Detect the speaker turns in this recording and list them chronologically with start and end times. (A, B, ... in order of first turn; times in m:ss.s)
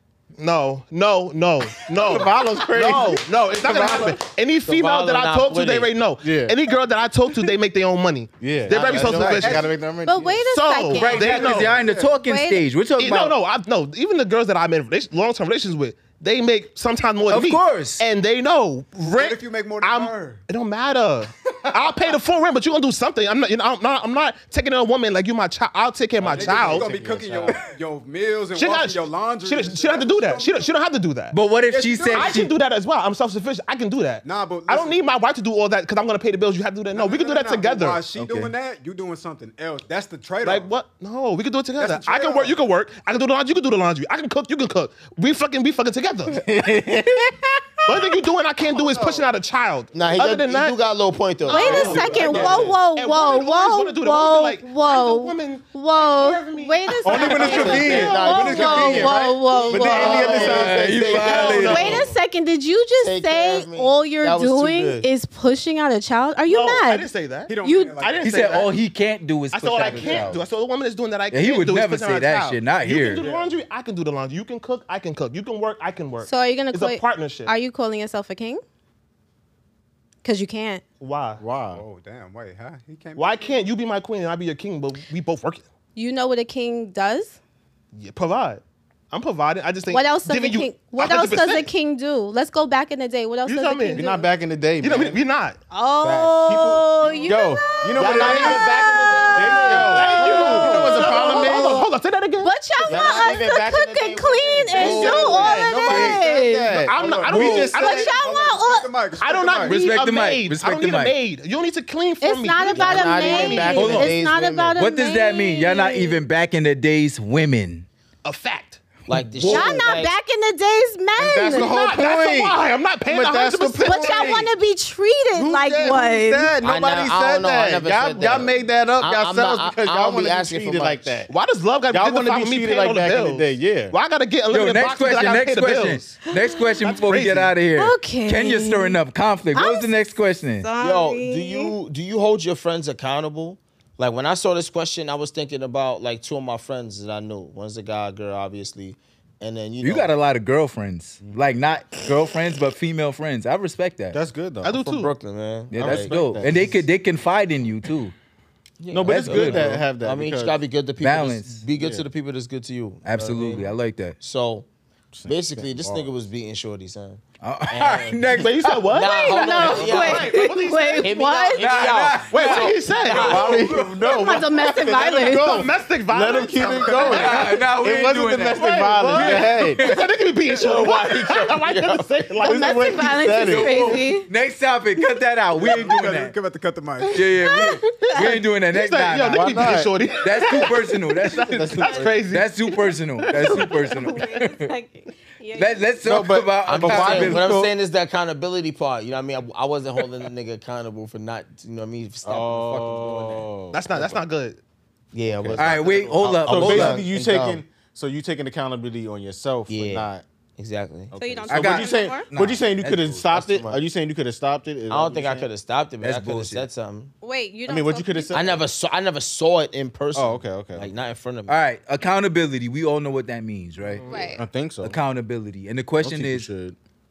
0:00.4-0:09.7 A
0:01.9-0:04.2 B
0:04.6-0:05.9 C
0:06.2-0:06.5 B
0:08.4-0:10.4 B
0:08.7-0:09.7 D
0:10.0-0:12.7 E
0:10.5-0:11.7 A
0:11.0-0:13.4 F
0:11.6-0:12.1 D
0:13.0-0:26.9 A
0:17.3-0:18.0 F
0:19.0-0:20.4 D
0:26.2-0:27.6 B
0:26.2-0:30.7 D
0:28.5-0:31.4 A
0:31.3-0:32.5 F
0:31.7-0:32.4 D
0:32.1-0:38.0 A
0:34.2-0:35.0 D
0:36.9-0:40.7 D
0:40.4-0:46.5 A
0:41.8-0:42.6 D
0:46.3-0:48.1 B
0:47.8-0:50.8 A
0:48.9-0:49.2 D
0:49.9-0:52.7 C
0:51.5-0:58.6 A
0:51.5-1:00.6 E
0:51.8-0:52.5 B
0:51.8-0:52.5 F
0:57.0-1:00.9 D
0:57.4-1:01.9 C
0:57.6-0:58.0 B
0:58.6-1:01.9 B
0:59.7-1:02.1 A
1:00.4-1:02.0 F
1:01.6-1:07.1 E
1:03.0-1:05.0 C
1:06.4-1:08.8 A
1:07.5-1:08.3 D
1:07.6-1:08.0 E
1:08.2-1:10.4 F
1:09.5-1:17.5 A
1:09.9-1:10.3 D
1:11.3-1:13.2 F
1:13.2-1:13.5 D
1:16.2-1:18.6 E
1:20.2-1:20.8 E
1:21.0-1:21.4 A
1:21.4-1:21.8 B
1:21.7-1:23.5 D
1:23.2-1:25.7 A
1:26.0-1:27.4 E
1:27.9-1:31.7 A
1:29.9-1:34.3 E
1:33.4-1:34.0 A
1:33.9-1:35.2 B
1:34.8-1:35.6 A
1:35.7-1:41.8 E
1:36.0-1:41.9 B
1:37.8-1:38.6 D
1:38.0-1:41.0 C
1:39.4-1:39.8 D
1:39.5-1:42.5 A
1:42.4-1:46.8 E
1:42.8-1:45.3 C
1:42.9-1:43.2 B
1:44.7-1:48.1 B
1:44.8-1:45.9 A
1:45.7-1:46.2 D
1:46.8-1:48.1 A
1:47.2-1:49.9 D
1:47.3-1:47.6 F
1:47.7-1:48.9 E
1:49.2-1:54.0 A
1:49.6-1:51.2 F
1:52.2-1:56.2 E
1:52.7-1:54.7 C
1:53.3-1:54.0 B
1:53.7-1:54.1 F
1:54.7-1:57.8 F
1:58.2-1:58.8 A
1:59.1-2:00.1 C
1:59.2-1:59.6 F
1:59.5-2:01.8 E
2:01.2-2:04.5 B
2:01.5-2:04.5 A
2:03.8-2:06.6 E
2:05.4-2:11.3 B
2:06.6-2:11.2 C
2:11.3-2:16.2 A
2:11.9-2:13.9 B
2:14.5-2:20.7 F
2:16.2-2:16.8 E
2:16.8-2:17.6 A
2:17.7-2:19.0 E
2:19.5-2:20.0 E
2:20.5-2:21.7 E
2:20.8-2:30.1 C
2:29.8-2:34.2 F
2:34.1-2:34.8 B
2:34.6-2:35.1 A
2:34.7-2:36.4 C
2:35.7-2:38.1 F
2:35.8-2:36.8 B
2:38.8-2:44.7 C
2:38.9-2:40.6 B
2:39.0-2:39.8 F
2:41.0-2:41.6 F
2:41.7-2:42.1 B
2:43.0-2:44.2 F
2:45.1-2:46.1 B
2:45.3-2:53.6 C
2:47.4-2:48.9 F
2:48.3-2:51.1 A
2:48.9-2:51.7 E
2:51.6-2:54.0 F
2:52.3-2:53.9 A
2:53.0-2:59.8 B
2:53.9-2:55.6 E
2:55.2-2:57.6 A
2:56.4-2:57.2 C
2:57.0-3:00.1 F
2:58.4-3:03.1 A
3:00.5-3:02.4 C
3:02.4-3:04.3 E
3:02.4-3:03.8 B
3:03.4-3:06.3 F
3:05.6-3:07.3 D
3:07.1-3:14.7 F
3:07.4-3:08.4 E
3:08.0-3:13.9 A
3:09.3-3:10.0 B
3:11.4-3:12.2 B
3:13.3-3:16.0 E
3:15.6-3:17.7 F
3:16.0-3:17.7 B
3:16.6-3:23.4 C
3:22.2-3:24.2 B
3:23.7-3:24.6 A
3:25.1-3:27.6 C
3:25.2-3:30.2 B
3:25.6-3:27.0 F
3:25.8-3:26.2 A
3:29.7-3:31.1 C
3:31.1-3:35.5 B
3:31.2-3:32.3 E
3:31.5-3:33.3 F
3:33.3-3:33.8 C
3:34.9-3:37.1 C
3:36.0-3:36.6 F
3:37.2-3:38.5 E
3:37.7-3:38.6 B
3:38.3-3:41.6 C
3:40.1-3:40.9 B
3:41.5-3:44.0 F
3:43.8-3:44.3 A
3:44.0-3:44.4 E
3:44.2-3:45.0 B
3:44.8-3:46.5 F
3:46.0-3:46.8 B